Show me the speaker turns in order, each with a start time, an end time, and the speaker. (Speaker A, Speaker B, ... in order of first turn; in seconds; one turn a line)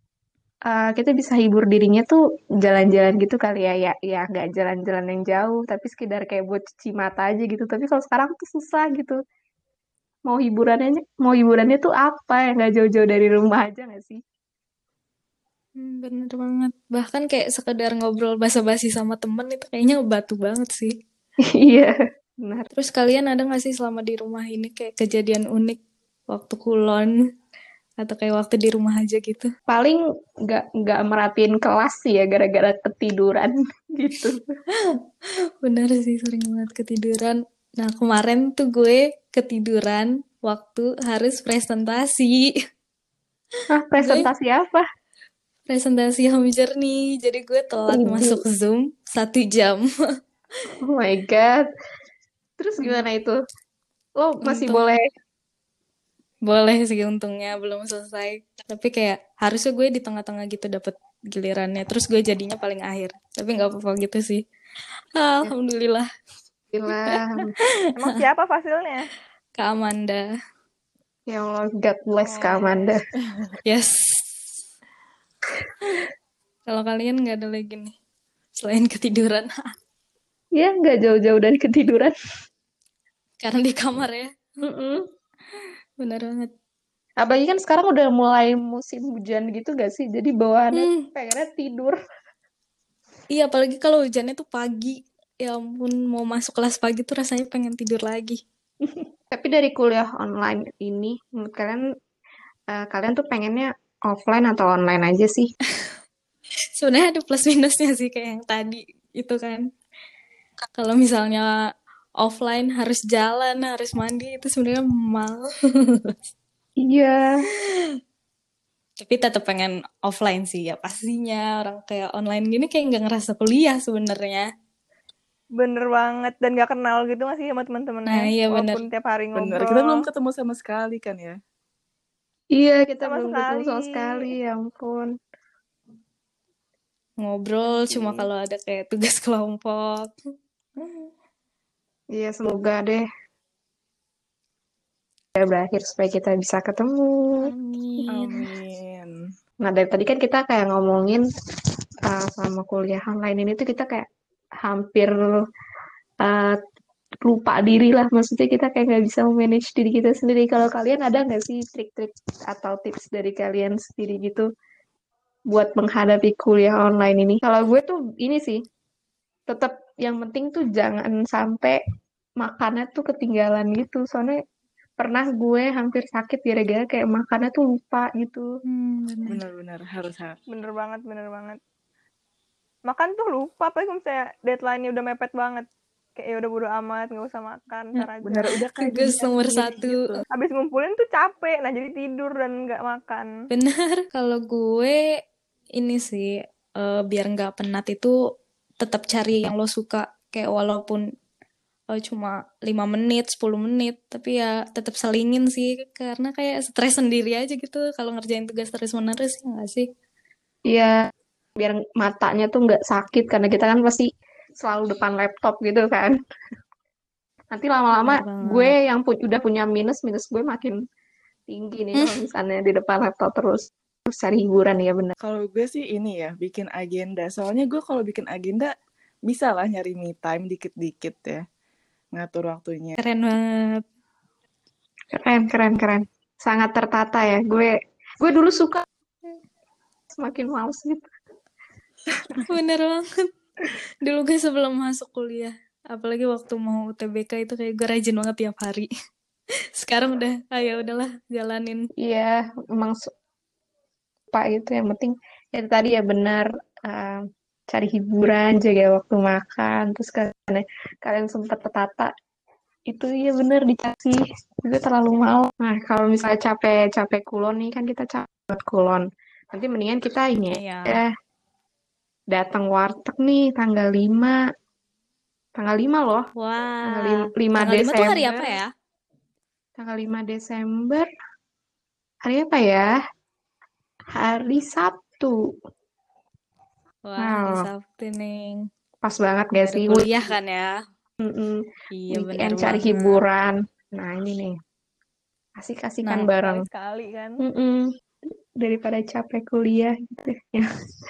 Speaker A: 0.7-9.2
Speaker A: 10.3-14.2
Speaker B: 15.8-20.9
Speaker A: 21.6-22.7
Speaker B: 22.7-27.1
Speaker B: 28.0-29.5
Speaker A: 29.7-34.5
Speaker B: 35.6-42.5
Speaker A: 43.7-44.8
Speaker B: 44.0-44.3
Speaker B: 45.7-49.9
Speaker A: 47.9-48.4
Speaker A: 50.8-51.7
Speaker A: 52.6-53.4
Speaker A: 54.2-55.1
Speaker B: 54.4-54.9
Speaker B: 56.5-64.4
Speaker B: 65.2-66.1
Speaker A: 66.7-67.5
Speaker B: 67.1-68.1
Speaker C: 67.9-69.1
Speaker B: 69.6-70.3
Speaker A: 71.3-73.0
Speaker C: 72.3-72.9
Speaker B: 73.7-74.5
Speaker B: 76.7-77.9
Speaker B: 78.6-79.6
Speaker A: 80.6-82.1
Speaker B: 83.4-84.3
Speaker A: 84.6-85.0
Speaker B: 86.0-86.5
Speaker A: 87.2-92.0
Speaker B: 90.7-91.1
Speaker B: 93.3-98.4
Speaker A: 98.8-101.8
Speaker A: 102.7-105.5
Speaker B: 106.8-109.6
Speaker B: 110.8-111.5
Speaker B: 112.2-116.2
Speaker A: 116.8-117.4
Speaker B: 117.6-118.0
Speaker B: 119.0-124.5
Speaker C: 125.6-130.1
Speaker B: 128.1-128.8
Speaker D: 129.3-131.4
Speaker A: 132.5-135.1
Speaker C: 133.0-134.3
Speaker B: 137.2-140.1
Speaker A: 142.1-143.1
Speaker A: 145.4-147.4
Speaker B: 147.4-148.4
Speaker A: 148.1-148.3
Speaker D: 148.1-149.1
Speaker A: 149.6-151.2
Speaker A: 152.1-154.1
Speaker A: 154.6-155.4
Speaker A: 156.2-156.6
Speaker A: 157.2-164.5
Speaker A: 165.5-168.6
Speaker A: 169.5-171.8
Speaker A: 172.4-174.4
Speaker A: 175.0-178.5
Speaker B: 178.7-179.4
Speaker D: 179.3-180.4
Speaker C: 180.5-181.6
Speaker C: 182.9-188.4
Speaker D: 188.2-190.2
Speaker B: 188.8-190.0
Speaker C: 190.3-193.3
Speaker B: 193.5-195.0
Speaker B: 195.8-198.2
Speaker B: 198.8-201.0
Speaker B: 201.9-209.9
Speaker A: 210.7-211.0
Speaker A: 211.6-214.1
Speaker A: 214.6-216.2
Speaker A: 217.5-220.8
Speaker B: 218.0-218.7
Speaker A: 221.5-225.1
Speaker D: 225.2-228.7
Speaker D: 229.3-231.4
Speaker D: 232.1-233.0
Speaker B: 233.0-233.8
Speaker A: 235.1-238.8
Speaker A: 240.2-241.1
Speaker B: 242.4-243.2
Speaker B: 244.0-248.9
Speaker B: 249.8-251.9
Speaker A: 252.0-253.1
Speaker A: 254.3-262.1
Speaker A: 262.9-271.1
Speaker B: 270.5-271.0
Speaker A: 272.3-274.4
Speaker A: 275.6-276.3
Speaker B: 276.4-278.7
Speaker A: 276.9-278.6
Speaker A: 279.8-281.1
Speaker A: 282.2-282.9
Speaker A: 284.1-285.4
Speaker B: 287.1-288.6
Speaker A: 287.2-287.7
Speaker A: 289.0-290.3
Speaker B: 289.6-290.8
Speaker A: 291.2-294.6
Speaker B: 291.9-293.2
Speaker A: 295.6-296.6
Speaker B: 296.0-296.3
Speaker C: 296.4-297.4
Speaker A: 297.4-297.9
Speaker A: 298.6-300.7